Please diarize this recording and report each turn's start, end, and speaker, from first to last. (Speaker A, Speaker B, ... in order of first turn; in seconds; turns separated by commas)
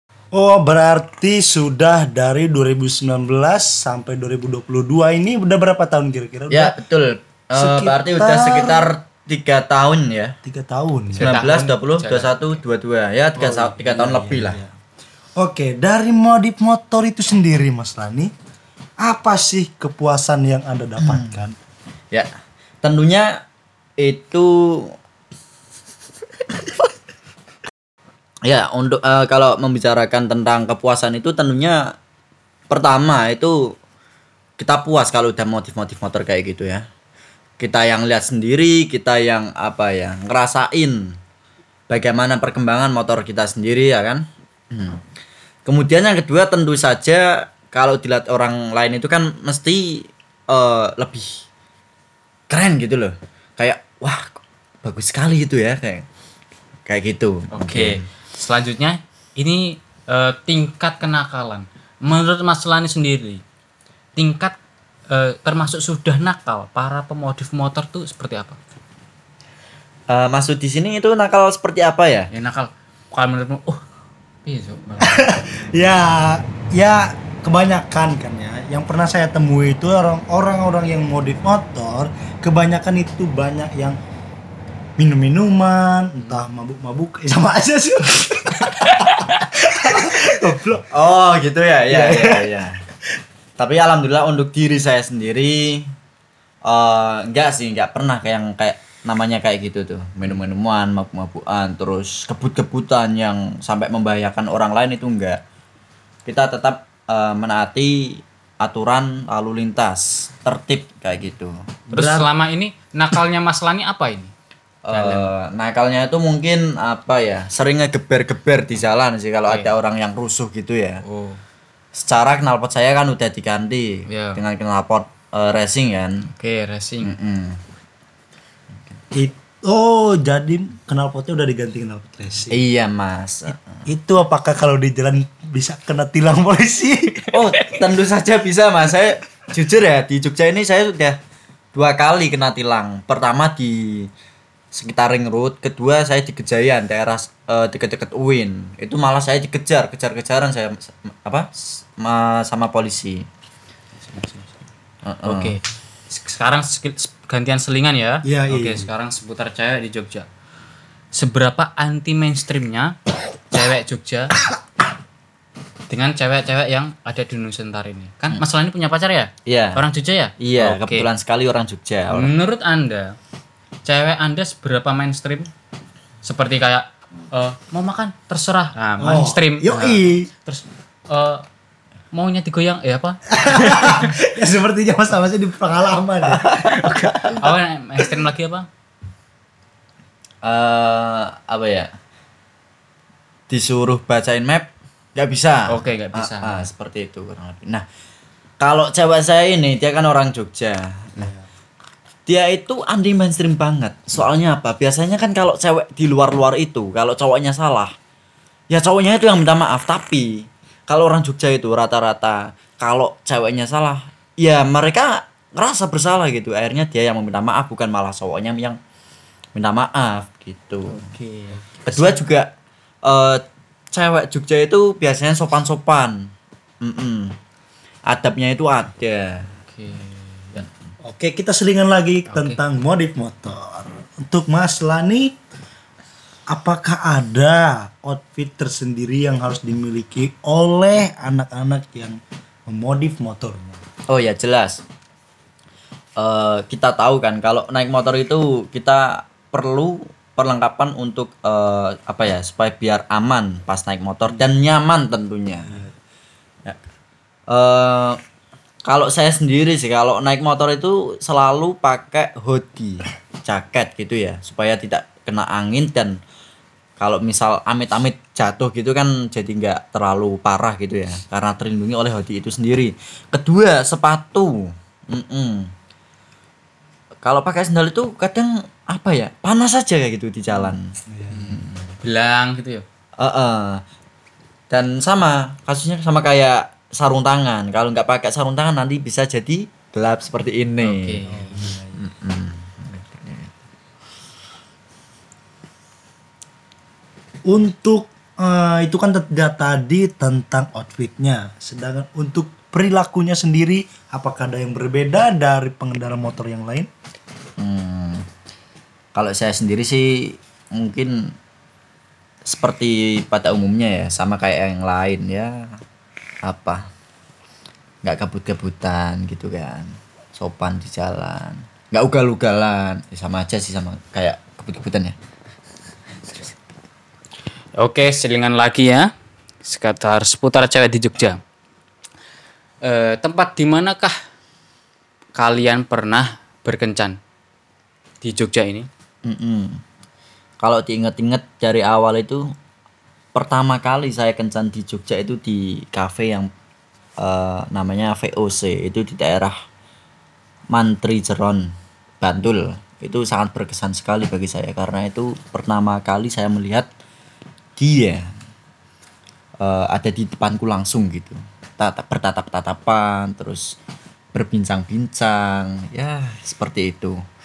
Speaker A: 0.3-6.8, Speaker B: 6.5-10.3, Speaker A: 7.5-8.9, Speaker A: 10.4-11.3, Speaker C: 11.2-12.6, Speaker B: 11.2-14.6, Speaker A: 13.3-14.7, Speaker A: 15.4-18.3, Speaker A: 19.0-21.6, Speaker B: 22.8-23.4, Speaker B: 24.0-24.9, Speaker B: 28.4-31.9, Speaker B: 32.7-33.7, Speaker B: 34.6-36.8, Speaker B: 37.6-41.2, Speaker B: 41.9-45.0, Speaker B: 45.6-51.4, Speaker B: 52.5-56.0, Speaker B: 56.9-58.0, Speaker C: 57.5-63.4, Speaker C: 64.2-64.5, Speaker C: 65.1-68.6, Speaker B: 70.1-72.3, Speaker C: 72.3-73.8, Speaker C: 74.4-75.2, Speaker A: 75.0-84.0, Speaker A: 85.0-88.9, Speaker A: 89.7-90.8, Speaker B: 90.9-92.8, Speaker A: 91.9-92.6, Speaker B: 93.6-95.9, Speaker B: 96.7-105.4, Speaker B: 106.2-111.5, Speaker A: 111.9-112.3, Speaker C: 111.9-114.3, Speaker B: 114.8-121.0, Speaker C: 114.9-115.3, Speaker C: 119.5-119.7, Speaker C: 121.0-121.4, Speaker B: 121.9-126.2, Speaker C: 124.1-124.4, Speaker C: 126.3-127.1, Speaker B: 127.0-127.6, Speaker A: 129.1-132.6, Speaker B: 132.5-133.6, Speaker A: 133.8-137.3, Speaker B: 137.3-141.2, Speaker B: 141.7-144.1, Speaker B: 144.7-153.2, Speaker C: 154.0-154.5, Speaker B: 155.1-155.6, Speaker C: 155.2-160.3, Speaker A: 158.2-158.9, Speaker C: 161.1-162.9, Speaker C: 163.5-164.4, Speaker C: 165.9-171.1, Speaker B: 169.5-169.8, Speaker B: 170.4-172.3, Speaker C: 172.1-173.2, Speaker C: 173.8-175.5, Speaker C: 176.2-181.4, Speaker A: 179.0-180.3, Speaker C: 182.1-184.1, Speaker A: 183.3-187.4, Speaker C: 187.3-188.7, Speaker B: 190.4-191.9, Speaker B: 193.5-197.8, Speaker C: 195.7-196.7, Speaker B: 198.6-201.3, Speaker A: 201.2-201.5, Speaker B: 202.3-207.9, Speaker B: 208.7-218.8, Speaker B: 219.6-221.0, Speaker C: 220.9-222.2, Speaker B: 221.8-222.5, Speaker B: 223.0-226.3, Speaker B: 226.8-227.3, Speaker B: 228.1-229.5, Speaker C: 229.6-230.6, Speaker A: 231.1-235.3, Speaker C: 232.3-232.6, Speaker A: 236.5-243.8, Speaker B: 244.1-244.8, Speaker B: 246.2-255.8, Speaker B: 257.5-258.2, Speaker B: 258.9-266.2, Speaker B: 267.0-275.7, Speaker B: 277.2-280.9, Speaker A: 280.5-281.6, Speaker B: 281.5-281.8, Speaker C: 282.0-282.8, Speaker B: 283.2-283.8, Speaker B: 284.7-291.2, Speaker C: 290.8-292.0, Speaker A: 291.3-291.8, Speaker B: 291.9-293.5, Speaker A: 297.5-306.9, Speaker B: 307.6-308.2, Speaker B: 309.1-311.3, Speaker B: 312.4-315.6, Speaker B: 316.4-316.8, Speaker B: 318.0-325.1, Speaker C: 327.8-329.1, Speaker C: 329.6-331.4, Speaker C: 332.8-334.1, Speaker C: 335.4-337.2, Speaker C: 338.2-338.9, Speaker B: 339.2-339.8, Speaker B: 340.6-342.4, Speaker B: 343.3-346.5, Speaker B: 347.2-349.5, Speaker B: 350.7-356.9, Speaker B: 357.8-358.2, Speaker B: 359.6-363.8, Speaker B: 364.3-367.2